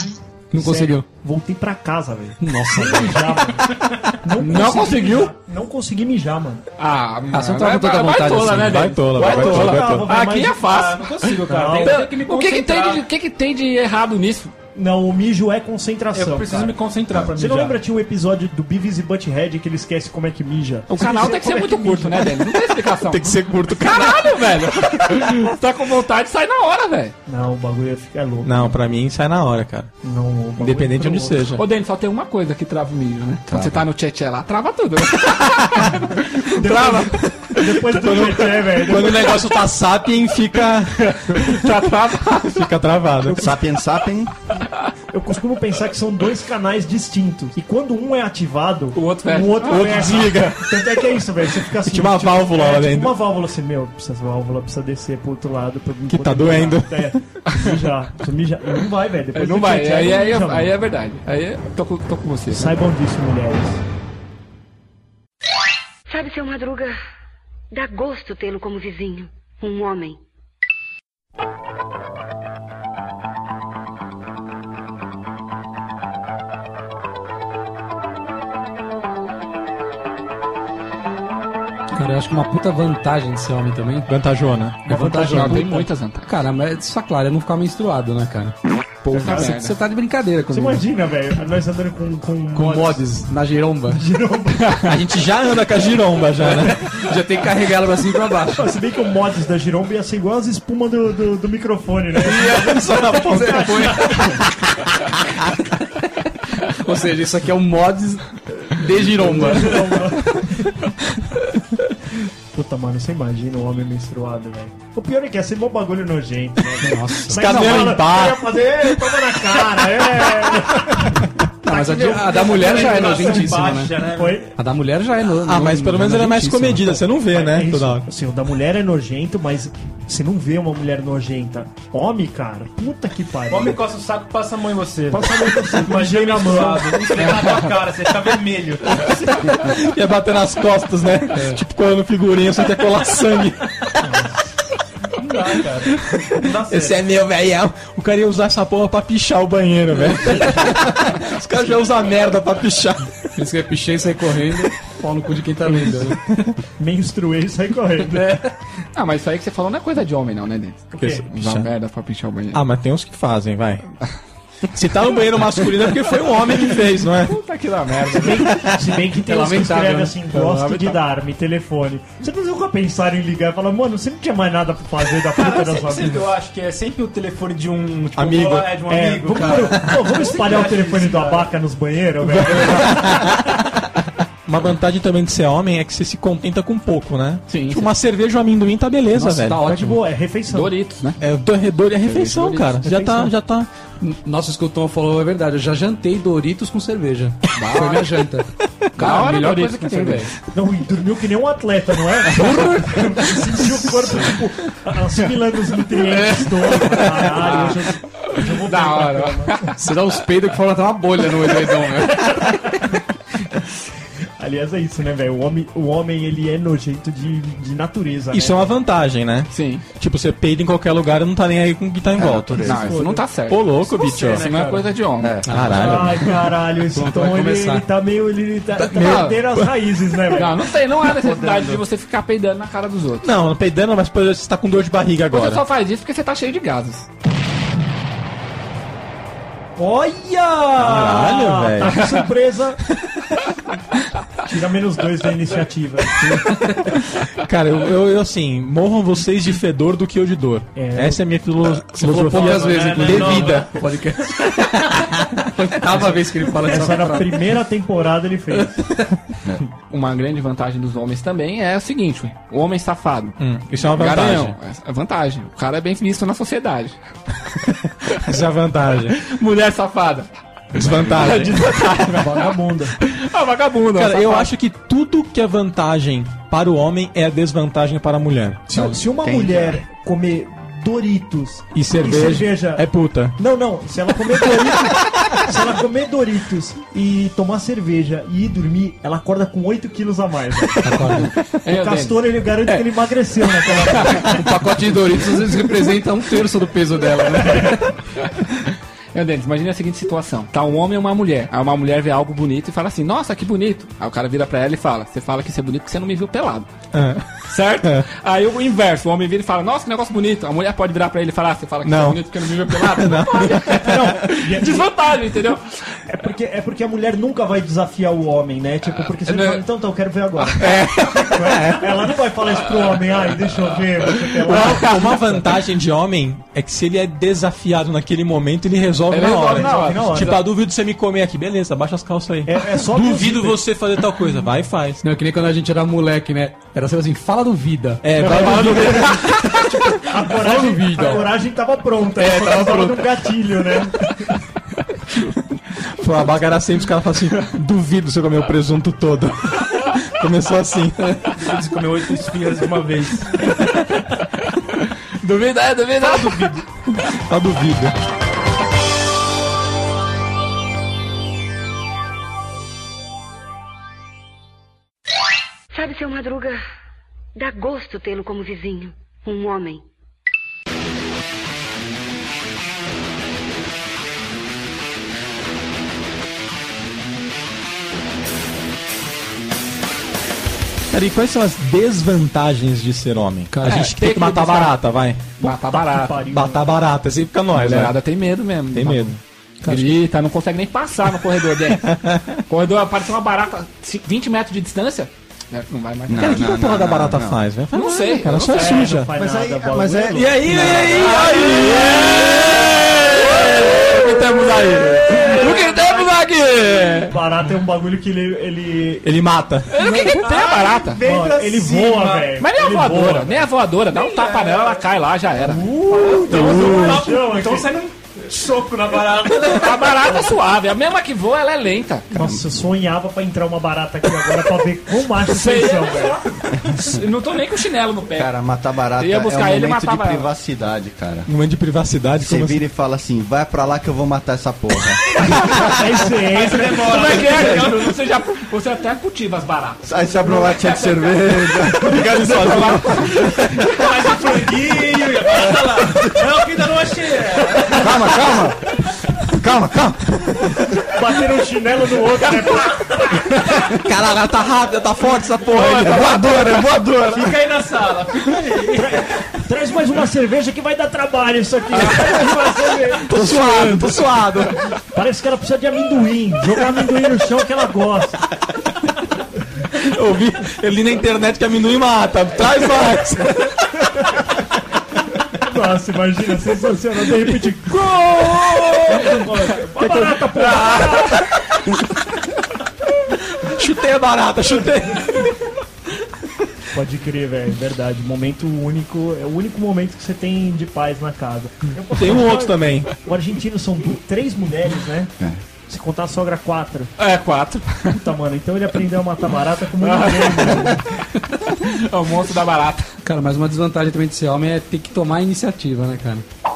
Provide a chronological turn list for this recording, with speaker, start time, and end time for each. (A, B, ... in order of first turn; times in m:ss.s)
0:00.5-0:01.1 A
0:00.6-0:06.6 B
0:02.4-0:03.4 A
0:04.4-0:05.3 C
0:06.8-0:14.5 C
0:07.3-0:08.9 A
0:08.6-0:10.1 D
0:09.2-0:10.7 B
0:10.6-0:13.0 E
0:11.4-0:12.1 B
0:14.8-0:16.8 B
0:16.1-0:17.8 E
0:17.3-0:22.4 B
0:20.9-0:27.2 C
0:23.0-0:24.3 D
0:27.3-0:28.8 B
0:28.4-0:29.9 D
0:30.0-0:31.4 B
0:30.6-0:31.6 D
0:31.6-0:39.5 C
0:33.5-0:33.8 F
0:36.4-0:39.4 B
0:37.9-0:41.8 D
0:41.0-0:42.7 C
0:42.4-0:43.6 D
0:43.3-0:44.3 F
0:45.1-1:00.7 B
0:49.0-0:50.4 C
0:49.6-0:51.1 D
0:51.8-0:53.2 D
0:56.1-0:57.2 D
0:59.3-1:02.8 C
1:02.5-1:03.8 B
1:06.1-1:07.0 G
1:07.7-1:10.2 G
1:21.9-1:24.1 A
1:24.1-1:24.8 D
1:24.9-1:25.8 B
1:24.9-1:28.5 A
1:25.3-1:26.3 C
1:29.0-1:29.8 C
1:29.1-1:30.8 A
1:29.2-1:29.5 B
1:30.5-1:33.0 B
1:32.5-1:34.0 A
1:33.9-1:34.9 B
1:34.8-1:36.8 D
1:36.8-1:38.7 A
1:38.6-1:44.4 B
1:42.2-1:44.4 A
1:42.3-1:44.3 D
1:46.6-1:50.0 A
1:49.1-1:50.9 B
1:52.5-2:01.3 B
1:56.8-1:57.9 A
1:57.3-1:59.2 D
2:01.6-2:04.0 A
2:01.7-2:04.4 E
2:02.7-2:04.5 B
2:04.6-2:07.0 A
2:05.4-2:08.0 D
2:07.3-2:13.8 B
2:13.5-2:19.2 E
2:15.1-2:17.2 B
2:17.3-2:17.6 C
2:19.6-2:23.9 D
2:25.2-2:27.0 E
2:26.6-2:33.2 D
2:33.4-2:36.2 A
2:36.8-2:38.4 B
2:38.1-2:38.5 A
2:39.0-2:42.6 C
2:40.9-2:41.2 B
2:41.0-2:41.7 D
2:42.5-2:43.9 D
2:44.7-2:47.4 D
2:46.7-2:48.6 C
2:48.1-2:56.3 B
2:49.2-2:51.0 A
2:55.3-3:01.5 E
2:58.2-2:58.8 D
2:58.9-3:03.2 B
3:02.5-3:03.8 D
3:04.5-3:09.6 D
3:07.5-3:07.9 C
3:09.2-3:10.0 A
3:09.6-3:10.8 B
3:10.5-3:11.2 C
3:11.2-3:13.7 D
3:12.1-3:12.8 C
3:12.8-3:13.3 B
3:14.0-3:20.3 A
3:17.6-3:18.1 C
3:19.0-3:20.3 C
3:20.5-3:29.7 B
3:22.4-3:23.0 A
3:26.0-3:27.8 A
3:27.4-3:27.8 C
3:28.3-3:29.8 C
3:29.8-3:32.7 A
3:34.4-3:38.7 B
3:38.3-3:42.7 D
3:39.5-3:39.8 C
3:42.2-3:43.0 F
3:42.6-3:45.4 C
3:42.6-3:43.3 B
3:43.5-3:44.4 D
3:44.0-3:44.9 E
3:45.2-3:45.7 F
3:45.5-3:46.4 A
3:45.5-3:46.4 D
3:45.7-3:50.6 B
3:46.9-3:47.8 A
3:48.9-3:49.4 C
3:50.3-3:53.3 C
3:51.2-3:51.8 F
3:53.2-3:55.6 D
3:55.3-3:57.1 C
3:59.8-4:02.8 B
4:00.8-4:02.0 D
4:04.5-4:06.3 B
4:07.4-4:13.7 D
4:10.8-4:11.2 B
4:12.0-4:17.4 A
4:12.1-4:13.7 E
4:16.6-4:19.0 B
4:19.9-4:23.4 C
4:23.4-4:24.6 D
4:24.0-4:27.0 C
4:28.2-4:29.2 D
4:29.2-4:34.5 C
4:30.7-4:31.7 D
4:31.2-4:33.0 B
4:33.9-4:38.7 D
4:38.7-4:42.8 B
4:38.8-4:39.8 F
4:41.8-4:43.4 D
4:43.4-4:54.5 B
4:50.8-4:51.3 A
4:51.4-4:54.4 C
4:54.2-4:57.9 A
4:58.4-5:06.7 C
5:06.9-5:08.1 D
5:07.4-5:16.0 C
5:11.8-5:14.3 D
5:13.8-5:14.9 B
5:16.1-5:25.2 B
5:18.8-5:19.6 C
5:20.4-5:20.7 C
5:20.6-5:22.1 D
5:24.3-5:25.2 C
5:24.4-5:35.0 D
5:29.1-5:30.4 C
5:29.2-5:30.4 B
5:32.5-5:33.6 B
5:35.0-5:38.0 A
5:38.0-5:39.4 D
5:38.2-5:39.2 B
5:38.2-5:39.6 C
5:40.0-5:44.4 B
5:40.3-5:41.3 A
5:42.2-5:43.0 A
5:45.8-5:51.2 D
5:51.4-5:53.5 E
5:54.5-5:56.6 C
5:56.0-5:56.6 E
5:57.1-5:58.0 D
6:05.7-6:06.6 G
6:07.4-6:09.8 G
6:20.9-6:25.2 D
6:23.5-6:23.9 A
6:23.6-6:24.8 C
6:25.4-6:26.6 B
6:25.4-6:26.2 C
6:26.3-6:28.0 D
6:27.5-6:32.0 C
6:28.7-6:29.2 D
6:29.6-6:30.0 B
6:31.9-6:32.4 D
6:32.5-6:36.5 C
6:36.1-6:37.4 F
6:36.1-6:39.1 D
6:37.7-6:38.9 C
6:38.5-6:41.1 B
6:39.2-6:41.1 F
6:40.2-6:44.1 D
6:40.5-6:40.8 A
6:40.7-6:47.2 C
6:44.9-6:46.1 B
6:47.1-6:49.1 B
6:49.0-6:49.7 D
6:49.7-6:51.0 C
6:49.8-6:50.2 B
6:49.9-6:52.4 E
6:51.0-6:53.4 B
6:52.4-6:55.7 C
6:53.9-6:54.8 E
6:55.4-6:57.7 B
6:55.8-7:00.2 E
6:56.3-6:57.0 D
6:59.4-7:02.1 C
7:02.1-7:06.2 B
7:05.3-7:08.3 C
7:08.2-7:11.3 F
7:09.0-7:10.3 C
7:11.3-7:12.6 D
7:12.2-7:15.0 F
7:15.2-7:17.5 B
7:16.2-7:17.9 E
7:16.4-7:23.6 C
7:19.8-7:22.6 F
7:21.8-7:23.6 D
7:23.6-7:28.2 E
7:27.7-7:28.6 F
7:29.4-7:30.1 F
7:30.9-7:33.2 B
7:33.7-7:37.3 D
7:35.6-7:36.8 C
7:37.1-7:39.0 E
7:38.8-7:43.0 B
7:42.0-7:43.1 E
7:43.1-7:44.6 D
7:44.9-7:48.3 B
7:49.8-7:53.7 D
7:55.4-8:01.3 B
7:58.1-7:58.7 D
7:59.2-7:59.6 E
7:59.8-8:00.5 D
8:00.5-8:00.9 C
8:03.4-8:05.4 D
8:06.7-8:15.1 B
8:11.9-8:12.9 D
8:15.7-8:16.9 B
8:17.0-8:18.0 C
8:17.9-8:20.9 B
8:19.8-8:20.8 C
8:21.4-8:22.9 C
8:23.0-8:26.3 A